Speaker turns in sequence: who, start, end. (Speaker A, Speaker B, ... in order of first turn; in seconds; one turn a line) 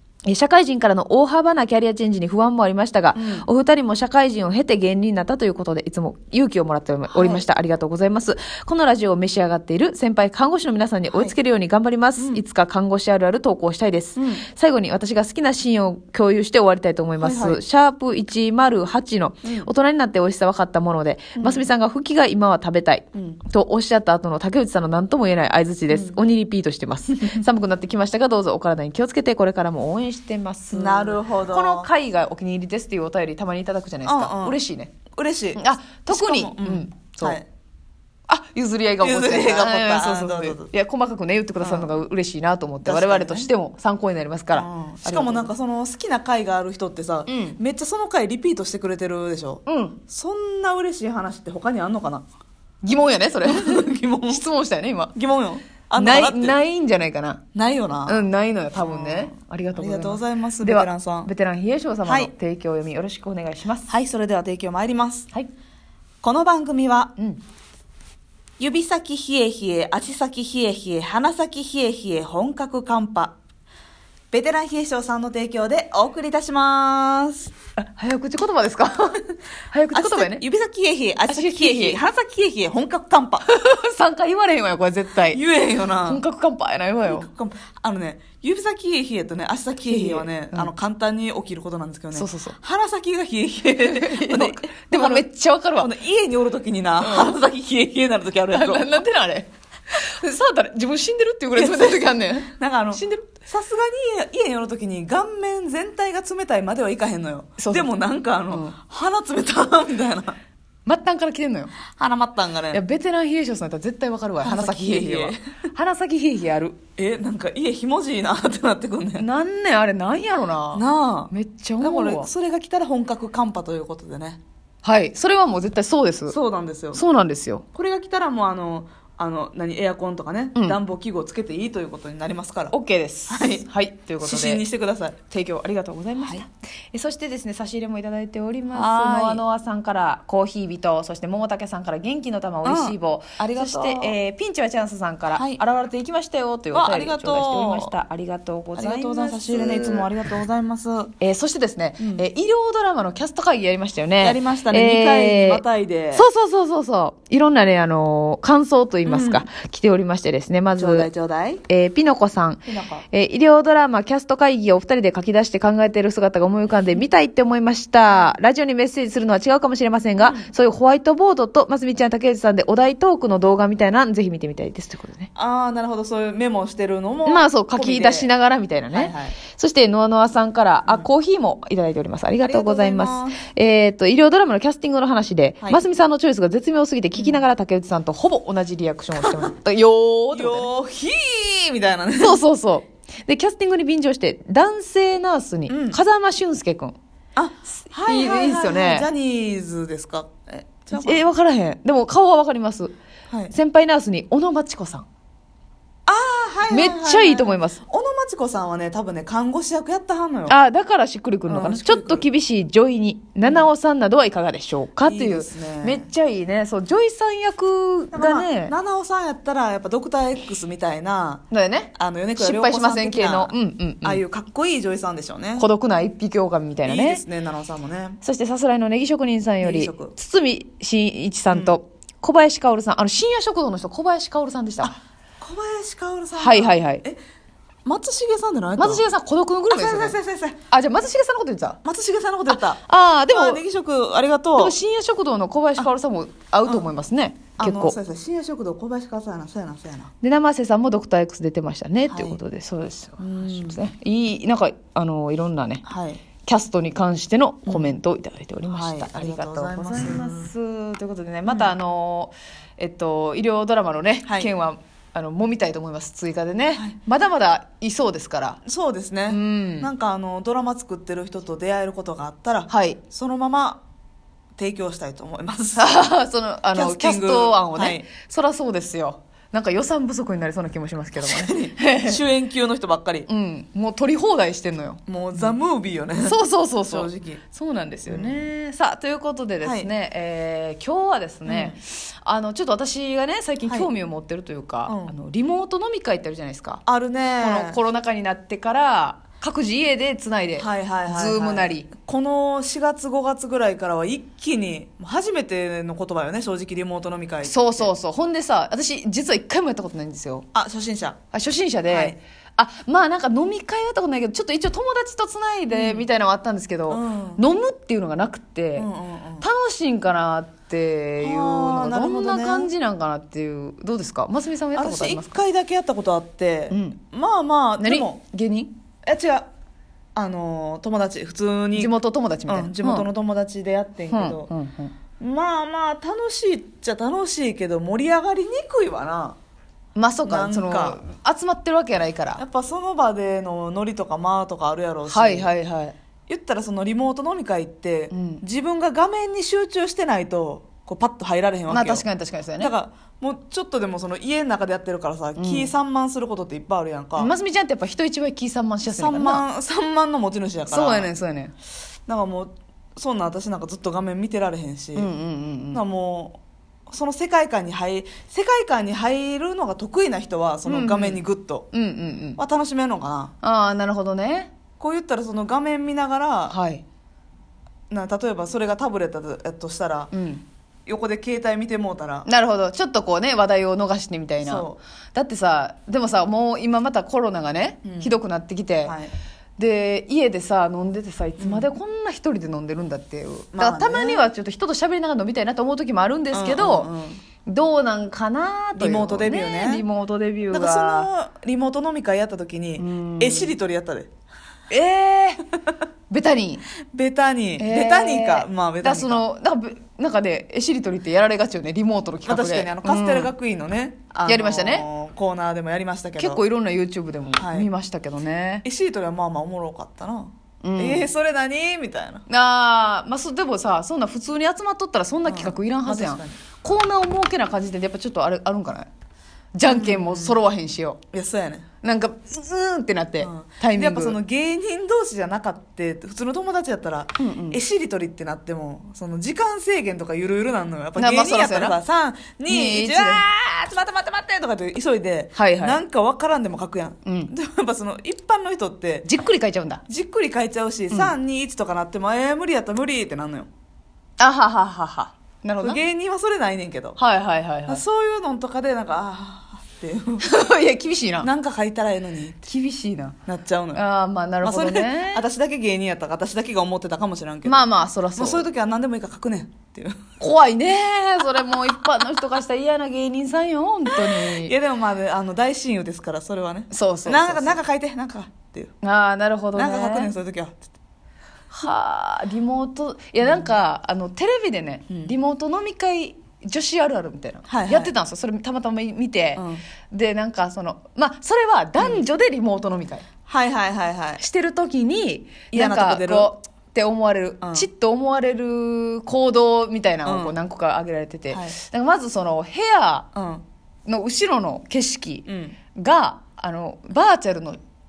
Speaker A: 0.2-34.9
Speaker B: 3.1-3.5
Speaker B: 7.1-7.4
Speaker B: 12.2-12.4
Speaker B: 14.2-14.4
Speaker B: 17.2-17.6
Speaker B: 19.4-19.7
Speaker B: 21.4-21.7
Speaker B: 23.1-23.4
Speaker B: 25.9-26.2
Speaker B: 27.1-27.4
Speaker B: 30.7-31.9
Speaker B: 34.0-34.6
Speaker B: 35.2-37.5
Speaker A: 35.6-37.4
Speaker A: 38.3-45.5
Speaker B: 39.0-40.7
Speaker B: 41.6-42.0
Speaker B: 42.8-43.5
Speaker B: 44.5-52.2
Speaker A: 47.3-47.6
Speaker A: 49.7-50.0
Speaker A: 52.8-55.1
Speaker B: 53.4-54.4
Speaker B: 55.1-56.6
Speaker A: 56.0-57.4
Speaker B: 57.5-58.3
Speaker A: 58.1-63.9
Speaker B: 58.8-61.3
Speaker B: 62.0-62.3
Speaker B: 63.9-65.3
Speaker B: 66.2-67.2
Speaker B: 68.6-73.4
Speaker B: 74.3-77.5
Speaker A: 77.8-80.4
Speaker B: 79.9-83.5
Speaker A: 81.3-82.0
Speaker A: 83.5-85.4
Speaker B: 85.3-86.2
Speaker A: 86.0-87.3
Speaker B: 87.0-95.3
Speaker A: 89.9-90.7
Speaker A: 92.1-92.6
Speaker A: 93.8-95.9
Speaker B: 95.8-99.0
Speaker A: 97.0-97.3
Speaker A: 98.5-103.3
Speaker B: 101.5-110.4
Speaker A: 107.6-107.9
Speaker A: 108.5-108.8
Speaker A: 110.9-111.7
Speaker B: 111.9-112.8
Speaker A: 112.7-116.8
Speaker B: 114.4-115.4
Speaker B: 117.0-119.3
Speaker A: 119.2-122.3
Speaker B: 120.7-124.4
Speaker A: 124.8-126.4
Speaker B: 126.3-127.0
Speaker A: 126.9-127.7
Speaker B: 127.7-132.7
Speaker A: 132.7-134.6
Speaker B: 133.3-133.7
Speaker B: 134.2-135.2
Speaker A: 135.3-150.1
Speaker B: 136.2-136.4
Speaker B: 138.7-139.4
Speaker B: 142.6-144.2
Speaker B: 146.7-147.9
Speaker B: 148.8-151.2
Speaker A: 151.2-155.6
Speaker B: 152.0-152.2
Speaker B: 154.2-156.3
Speaker A: 156.2-161.1
Speaker B: 159.1-159.5
Speaker B: 160.8-161.6
Speaker A: 161.7-175.3
Speaker B: 162.7-163.1
Speaker B: 170.2-170.5
Speaker B: 175.3-178.3
Speaker A: 177.3-190.7
Speaker B: 178.9-179.4
Speaker B: 182.4-183.4
Speaker B: 187.1-187.4
Speaker B: 190.3-192.4
Speaker A: 192.2-197.0
Speaker B: 195.7-196.0
Speaker B: 197.4-201.3
Speaker A: 197.8-199.1
Speaker A: 200.9-202.9
Speaker A: 203.5-205.1
Speaker B: 206.1-210.6
Speaker A: 206.7-207.8
Speaker A: 210.5-218.7
Speaker B: 211.5-212.3
Speaker B: 213.4-213.7
Speaker B: 215.0-216.1
Speaker B: 218.1-225.7
Speaker A: 221.5-224.2
Speaker A: 225.6-227.2
Speaker B: 226.8-228.2
Speaker A: 228.2-234.9
Speaker B: 229.6-230.1
Speaker B: 231.5-231.8
Speaker B: 234.8-237.2
Speaker A: 236.4-237.0
Speaker B: 237.8-239.1
Speaker A: 238.8-240.2
Speaker B: 239.7-240.6
Speaker A: 240.7-241.8
Speaker B: 241.8-244.8
Speaker A: 242.5-243.6
Speaker A: 244.6-248.0
Speaker B: 247.6-250.1
Speaker A: 250.2-255.8
Speaker B: 252.1-252.4
Speaker B: 253.2-253.8
Speaker B: 255.8-256.2
Speaker A: 256.4-268.6
Speaker B: 257.7-257.9
Speaker B: 258.7-260.5
Speaker B: 261.5-261.8
Speaker B: 268.6-273.8
Speaker A: 269.3-269.9
Speaker A: 272.7-273.0
Speaker B: 274.6-276.1
Speaker A: 275.8-282.2
Speaker B: 276.7-278.1
Speaker B: 281.2-283.3
Speaker A: 283.3-285.6
Speaker B: 285.1-287.4
Speaker A: 286.2-296.8
Speaker B: 288.1-288.4
Speaker B: 289.6-289.9
Speaker B: 291.5-291.8
Speaker B: 294.9-295.1
Speaker B: 296.9-297.8
Speaker A: 297.4-301.9
Speaker B: 300.6-307.9
Speaker A: 307.4-310.5
Speaker B: 310.5-311.2
Speaker A: 311.3-318.9
Speaker B: 311.9-312.2
Speaker B: 315.7-316.1
Speaker B: 316.9-317.4
Speaker B: 318.8-319.5
Speaker A: 319.4-325.4
Speaker B: 321.2-322.7
Speaker B: 324.8-328.2
Speaker A: 326.7-327.0
Speaker A: 327.8-328.7
Speaker B: 329.1-329.5
Speaker B: 330.1-331.9
Speaker A: 331.8-333.1
Speaker B: 332.5-334.5
Speaker A: 334.1-334.9
Speaker B: 335.2-339.4
Speaker A: 340.0-342.4
Speaker B: 340.3-341.0
Speaker B: 342.4-345.5
Speaker A: 345.1-345.9
Speaker B: 346.3-352.1
Speaker A: 348.1-348.4
Speaker A: 351.7-352.7
Speaker B: 352.6-357.3
Speaker A: 355.4-355.7
Speaker A: 357.2-359.4
Speaker B: 358.9-361.1
Speaker A: 360.7-361.5
Speaker B: 362.1-365.1
Speaker A: 365.0-365.8
Speaker B: 365.7-371.7
Speaker A: 370.7-372.4
Speaker B: 372.4-373.3
Speaker A: 373.4-374.5
Speaker B: 374.8-376.6
Speaker A: 376.5-376.8
Speaker B: 377.9-380.1
Speaker A: 380.1-380.4
Speaker B: 380.9-382.3
Speaker A: 382.3-389.0
Speaker B: 384.4-384.8
Speaker B: 387.8-388.2
Speaker B: 388.8-389.1
Speaker A: 389.6-396.9
Speaker B: 391.4-391.7
Speaker B: 393.6-394.3
Speaker B: 396.3-397.2
Speaker A: 397.4-401.1
Speaker B: 398.8-399.9
Speaker B: 400.5-404.1
Speaker A: 402.8-403.5
Speaker A: 404.7-405.4
Speaker A: 406.1-406.7
Speaker B: 406.9-409.2
Speaker A: 407.6-413.3
Speaker B: 412.3-416.4
Speaker A: 414.3-414.9
Speaker A: 416.2-418.6
Speaker B: 417.4-417.7
Speaker B: 418.6-422.2
Speaker A: 420.6-421.1
Speaker A: 422.3-428.9
Speaker B: 425.3-426.4
Speaker A: 429.6-431.0
Speaker B: 429.6-430.4
Speaker B: 431.1-431.7
Speaker A: 431.8-434.2
Speaker B: 433.2-449.1
Speaker A: 437.2-437.6
Speaker A: 441.0-441.8
Speaker A: 442.5-443.2
Speaker A: 445.4-445.8
Speaker A: 447.1-447.3
Speaker A: 449.1-449.8
Speaker B: 449.9-453.5
Speaker A: 454.2-455.8
Speaker B: 455.6-457.0
Speaker A: 457.0-457.8
Speaker B: 457.7-460.2
Speaker A: 460.2-461.3
Speaker B: 461.2-462.4
Speaker A: 462.5-463.2
Speaker B: 463.3-463.8
Speaker A: 463.7-465.2
Speaker B: 464.4-467.6
Speaker A: 467.4-468.5
Speaker B: 468.2-470.1
Speaker A: 470.2-474.5
Speaker B: 473.9-478.7
Speaker A: 476.7-477.6
Speaker A: 478.8-480.1
Speaker B: 479.6-480.7
Speaker A: 481.5-493.1
Speaker B: 483.2-483.5
Speaker B: 487.5-487.9
Speaker B: 489.4-489.6
Speaker B: 493.3-494.2
Speaker A: 494.2-503.1
Speaker B: 495.5-496.3
Speaker B: 497.4-497.7
Speaker B: 500.0-500.4
Speaker B: 501.3-501.6
Speaker B: 503.1-503.4
Speaker A: 503.9-507.6
Speaker B: 505.3-505.6